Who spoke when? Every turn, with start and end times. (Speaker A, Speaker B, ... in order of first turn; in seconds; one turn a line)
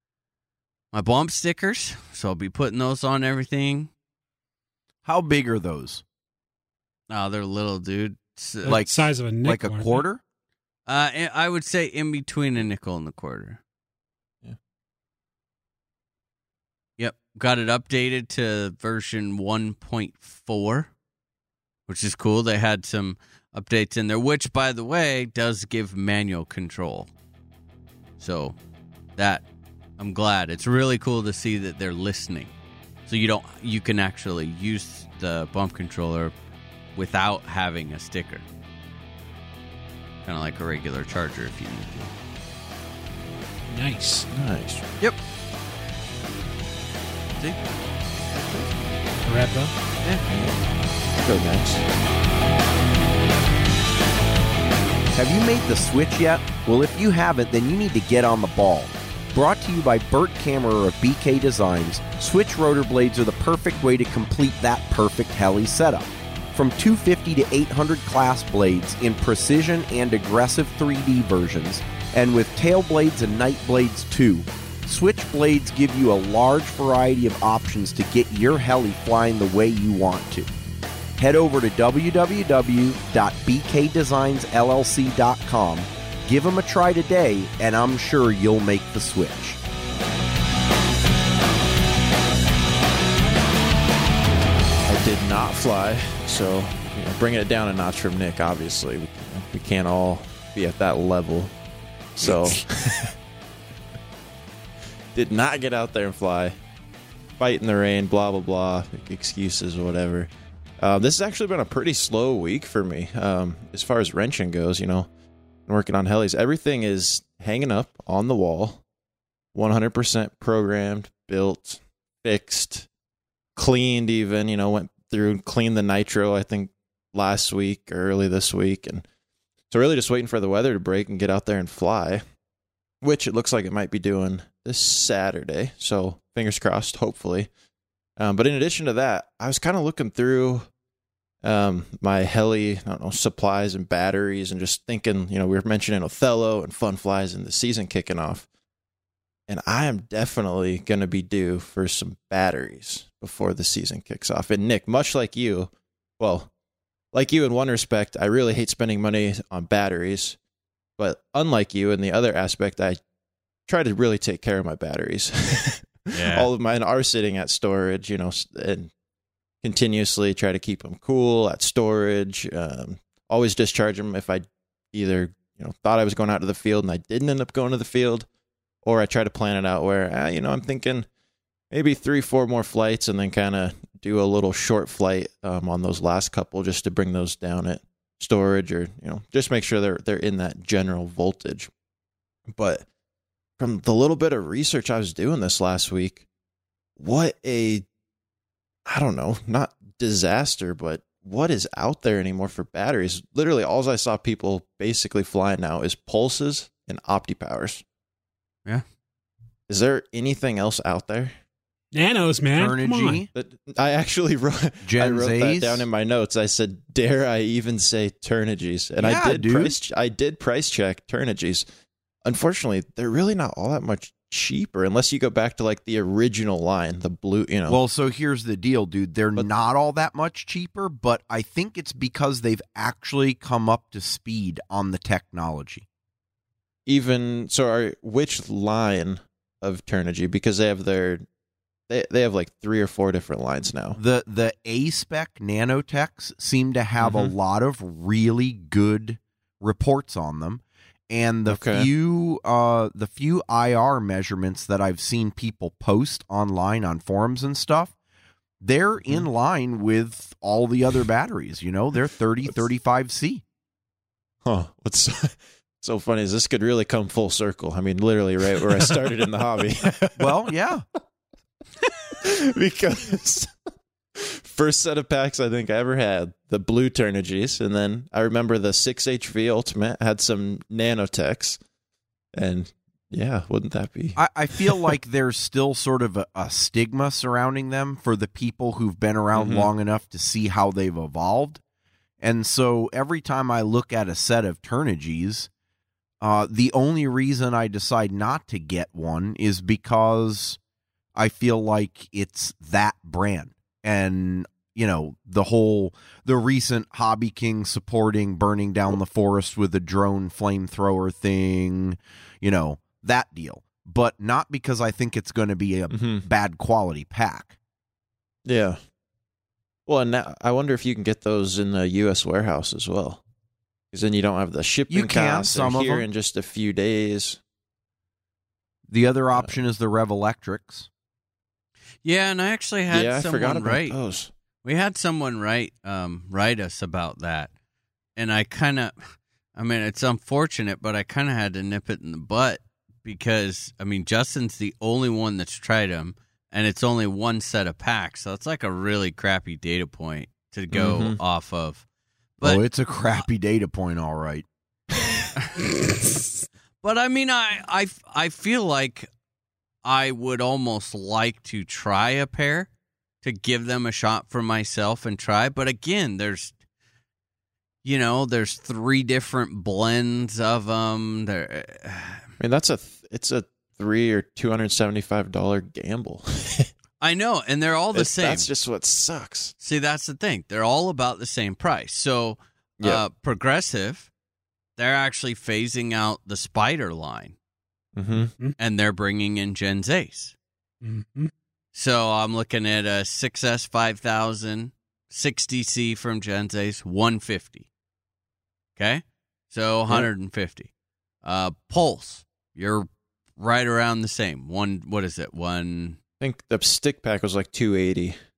Speaker A: 0.9-3.9
Speaker B: 5.0-6.0
Speaker A: 7.1-8.8
Speaker C: 8.6-10.0
Speaker B: 8.7-10.2
Speaker A: 10.9-13.6
Speaker A: 17.0-20.9
Speaker A: 21.9-27.1
Speaker A: 28.2-28.6
Speaker A: 29.2-29.4
Speaker A: 30.0-32.5
Speaker A: 33.1-36.4
Speaker A: 37.0-38.5
Speaker A: 40.2-42.1
Speaker C: 43.7-44.3
Speaker D: 44.3-45.0
Speaker A: 47.4-47.7
Speaker A: 48.3-48.7
Speaker C: 49.2-49.7
Speaker D: 50.3-50.6
Speaker D: 51.2-51.9
Speaker B: 55.1-80.5
Speaker B: 81.2-89.6
Speaker D: 94.9-101.5
Speaker D: 102.2-103.1
Speaker D: 105.1-106.6
Speaker D: 107.4-115.1
Speaker D: 115.7-118.8
Speaker D: 119.5-122.9
Speaker D: 123.6-129.1
Speaker D: 129.7-132.2
Speaker D: 133.0-137.5
Speaker D: 138.2-140.7
Speaker D: 141.4-148.5
Speaker D: 149.5-156.5
Speaker D: 157.1-160.4
Speaker D: 161.0-163.0
Speaker D: 163.7-168.9
Speaker A: 166.1-166.5
Speaker D: 169.6-178.3
Speaker D: 178.8-181.1
Speaker D: 181.7-191.7
Speaker D: 192.5-192.9
Speaker D: 193.6-196.2
Speaker D: 197.0-197.9
Speaker D: 198.9-207.8
Speaker D: 209.7-211.3
Speaker C: 211.9-213.2
Speaker B: 212.6-213.3
Speaker D: 213.3-221.7
Speaker B: 214.8-215.8
Speaker B: 219.0-219.8
Speaker D: 222.2-227.8
Speaker B: 227.7-235.8
Speaker D: 236.8-241.3
Speaker D: 241.9-244.0
Speaker B: 244.0-257.9
Speaker D: 247.0-247.3
Speaker D: 251.5-251.9
Speaker B: 258.6-263.4
Speaker D: 264.4-270.4
Speaker B: 270.2-270.9
Speaker D: 272.2-273.5
Speaker D: 274.2-281.6
Speaker D: 282.4-284.8
Speaker B: 284.2-291.6
Speaker D: 289.3-289.7
Speaker B: 292.2-295.5
Speaker B: 296.2-300.6
Speaker B: 301.2-317.6
Speaker D: 315.9-316.3
Speaker D: 318.5-318.8
Speaker D: 319.9-323.2
Speaker D: 323.9-327.4
Speaker B: 324.9-326.1
Speaker B: 328.9-330.9
Speaker A: 332.0-334.0
Speaker D: 332.9-334.3
Speaker A: 334.6-337.5
Speaker A: 338.2-351.8
Speaker D: 350.7-351.2
Speaker B: 352.4-354.5
Speaker A: 356.8-359.1
Speaker A: 359.8-362.7
Speaker A: 363.2-366.6
Speaker A: 367.8-372.2
Speaker D: 372.4-376.7
Speaker A: 377.0-378.5
Speaker D: 377.9-379.5
Speaker A: 379.6-384.1
Speaker A: 384.8-387.4
Speaker D: 388.0-388.3
Speaker A: 388.6-390.4
Speaker C: 390.8-391.3
Speaker A: 391.7-397.7
Speaker A: 398.8-400.7
Speaker A: 401.2-406.0
Speaker D: 406.2-408.2